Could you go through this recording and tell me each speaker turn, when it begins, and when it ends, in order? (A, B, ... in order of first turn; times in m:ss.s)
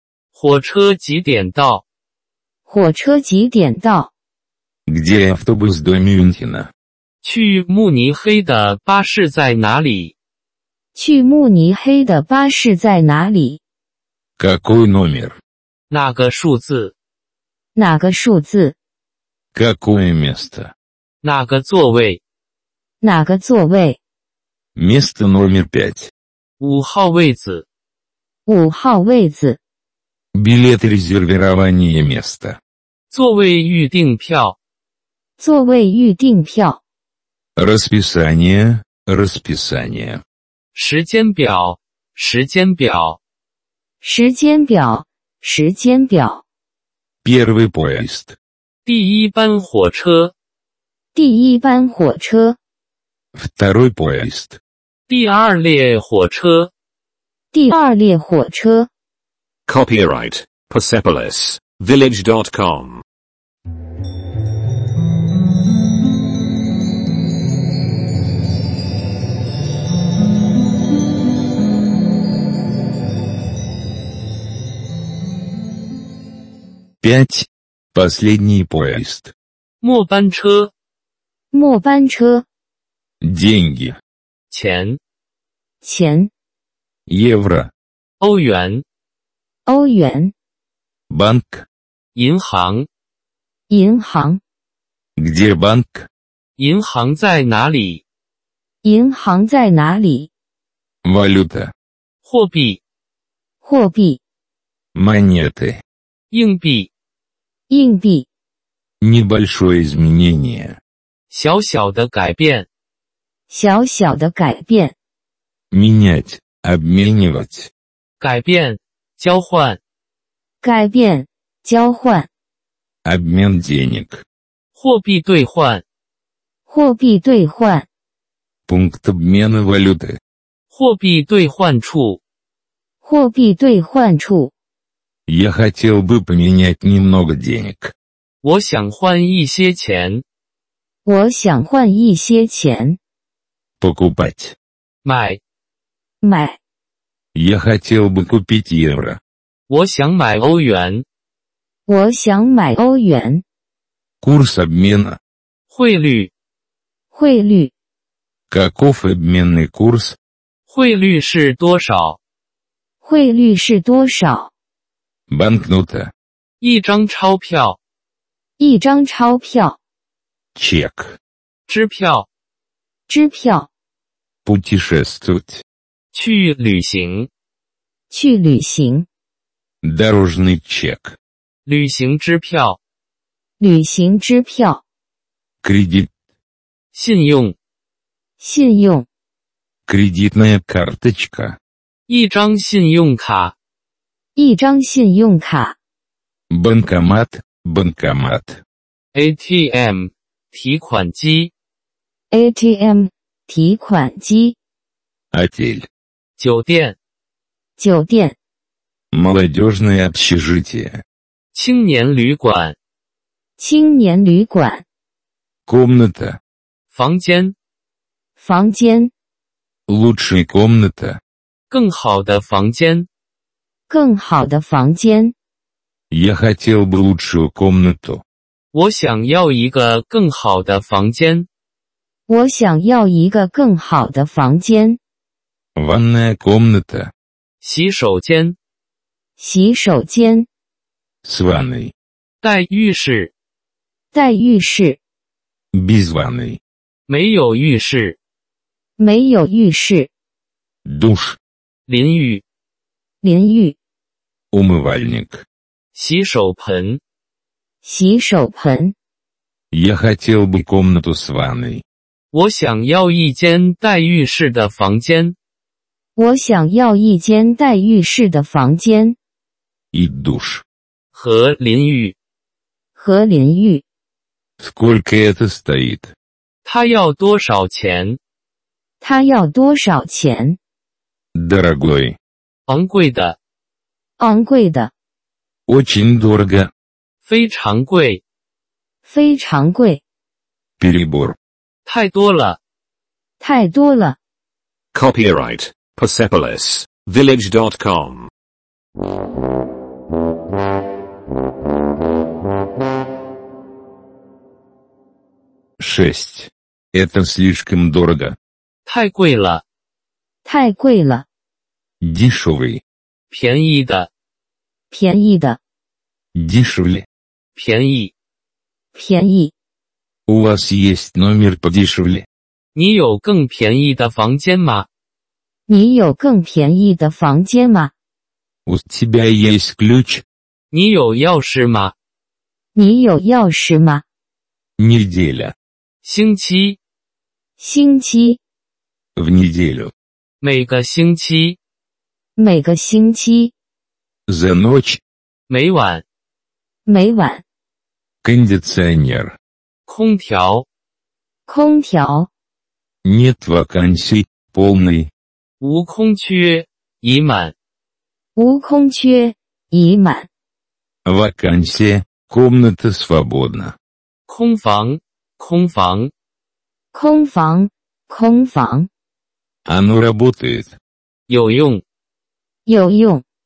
0:00.3-0:01.8 A
0:02.7-0:04.1 B
0:04.9-0:06.7 C
0:07.2-0:10.1 A
0:10.9-0:13.6 B
0:14.4-0:15.4 C
0:15.9-0:16.9 A
0:17.7-0:18.8 B
0:19.5-0:20.7 C
0:21.2-0:22.2 A
0:23.0-0:24.0 B
0:24.8-0:26.1 C
0:26.6-0:27.6 A
0:28.4-0:29.6 B
0:30.3-0:32.6 C
0:33.1-0:34.6 A
0:35.4-0:36.8 B
0:37.6-0:40.2 C
0:40.7-0:43.2 A
0:44.0-0:46.4 B
0:47.2-0:48.4 C
0:48.8-0:50.3 A
0:51.1-0:52.6 B
0:53.3-0:54.6 C
0:55.1-0:56.7 A
0:57.5-0:58.9 B
0:59.7-1:03.0 D
1:17.0-1:19.3 C
1:19.8-1:20.7 A
1:21.5-1:22.4 B
1:23.2-1:24.0 C
1:24.5-1:25.0 A
1:25.8-1:26.3 B
1:27.1-1:27.7 C
1:28.2-1:28.8 A
1:29.6-1:30.3 B
1:31.1-1:31.6 C
1:32.1-1:32.9 A
1:33.7-1:34.4 B
1:35.2-1:36.1 C
1:36.6-1:38.0 A
1:38.8-1:40.3 B
1:41.0-1:41.7 C
1:42.2-1:42.8 A
1:43.6-1:44.2 B
1:44.9-1:45.8 C
1:46.3-1:46.9 A
1:47.7-1:48.3 B
1:49.0-1:50.8 C
1:51.3-1:52.7 A
1:53.5-1:54.9 B
1:55.7-1:57.7 C
1:58.2-1:59.8 A
2:00.6-2:02.3 B
2:03.0-2:04.2 C
2:04.8-2:05.8 A
2:06.7-2:07.9 B
2:08.7-2:10.2 C
2:10.7-2:12.2 A
2:13.0-2:14.5 B
2:15.3-2:17.9 C
2:18.4-2:20.2 A
2:21.0-2:23.0 B
2:23.8-2:24.6 C
2:25.0-2:25.4 A
2:26.2-2:26.6 B
2:27.3-2:29.2 C
2:29.7-2:31.0 A
2:31.9-2:33.4 B
2:34.2-2:35.2 C
2:35.7-2:36.3 A
2:37.1-2:37.7 B
2:38.5-2:40.2 C
2:40.7-2:42.2 A
2:43.0-2:44.5 B
2:45.3-2:46.1 C
2:46.6-2:47.8 A
2:48.6-2:49.8 B
2:50.5-2:51.2 C
2:51.7-2:52.3 A
2:53.1-2:53.7 B
2:54.4-2:55.6 C
2:56.1-2:57.3 A
2:58.1-2:59.1 B
2:59.8-3:01.2 C
3:01.6-3:02.8 A
3:03.6-3:04.8 B
3:05.6-3:06.1 C
3:06.9-3:07.5 A
3:08.4-3:09.1 B
3:09.9-3:11.6 C
3:12.1-3:13.5 A
3:14.4-3:15.8 B
3:16.5-3:18.6 C
3:19.1-3:21.5 A
3:22.3-3:24.6 B
3:25.3-3:25.9 C
3:26.4-3:27.0 A
3:27.8-3:28.4 B
3:29.1-3:31.0 C
3:31.5-3:32.8 A
3:33.6-3:34.8 B
3:35.7-3:36.4 C
3:36.9-3:37.5 A
3:38.4-3:39.1 B
3:39.9-3:41.2 C
3:41.7-3:43.1 A
3:43.9-3:45.3 B
3:46.1-3:48.2 C
3:48.7-3:51.5 A
3:52.3-3:55.0 B
3:55.8-3:57.1 C
3:57.6-3:58.6 A
3:59.4-4:00.5 B
4:01.2-4:01.9 C
4:02.4-4:03.3 A
4:04.1-4:05.0 B
4:05.7-4:06.6 C
4:07.1-4:08.2 A
4:09.0-4:10.1 B
4:10.8-4:11.4 C
4:11.9-4:12.4 A
4:13.2-4:13.8 B
4:14.5-4:15.4 C
4:15.9-4:17.0 A
4:17.8-4:18.9 B
4:19.7-4:21.8 C
4:22.3-4:25.3 A
4:26.2-4:29.2 B
4:29.9-4:30.6 C
4:31.1-4:32.2 A
4:33.0-4:33.8 B
4:34.6-4:36.1 C
4:36.6-4:38.2 A
4:39.0-4:40.6 B
4:41.3-4:42.2 C
4:42.7-4:43.4 A
4:44.2-4:44.9 B
4:45.7-4:46.7 C
4:47.2-4:48.2 A
4:49.0-4:50.0 B
4:50.8-4:51.4 C
4:51.8-4:52.6 A
4:53.4-4:54.2 B
4:54.9-4:58.3 D
5:05.8-5:08.4 C
5:08.8-5:09.6 A
5:10.4-5:11.2 B
5:12.0-5:12.8 C
5:13.3-5:14.1 A
5:14.9-5:15.6 B
5:16.3-5:17.0 C
5:17.6-5:18.1 A
5:18.9-5:19.5 B
5:20.3-5:22.2 C
5:22.7-5:24.9 A
5:25.7-5:27.9 B
5:28.6-5:30.2 C
5:30.7-5:31.9 A
5:32.7-5:34.0 B
5:34.8-5:35.5 C
5:36.0-5:36.8 A
5:37.6-5:38.4 B
5:39.2-5:39.9 C
5:40.4-5:41.6 A
5:42.4-5:43.5 B
5:44.3-5:45.0 C
5:45.5-5:46.0 A
5:46.8-5:47.4 B
5:48.2-5:49.4 C
5:49.9-5:50.6 A
5:51.5-5:52.3 B
5:53.0-5:55.1 C
5:55.6-5:57.5 A
5:58.4-6:00.3 B
6:01.0-6:03.8 C
6:04.3-6:06.1 A
6:06.9-6:08.9 B
6:09.6-6:10.7 C
6:11.3-6:11.8 A
6:12.6-6:13.2 B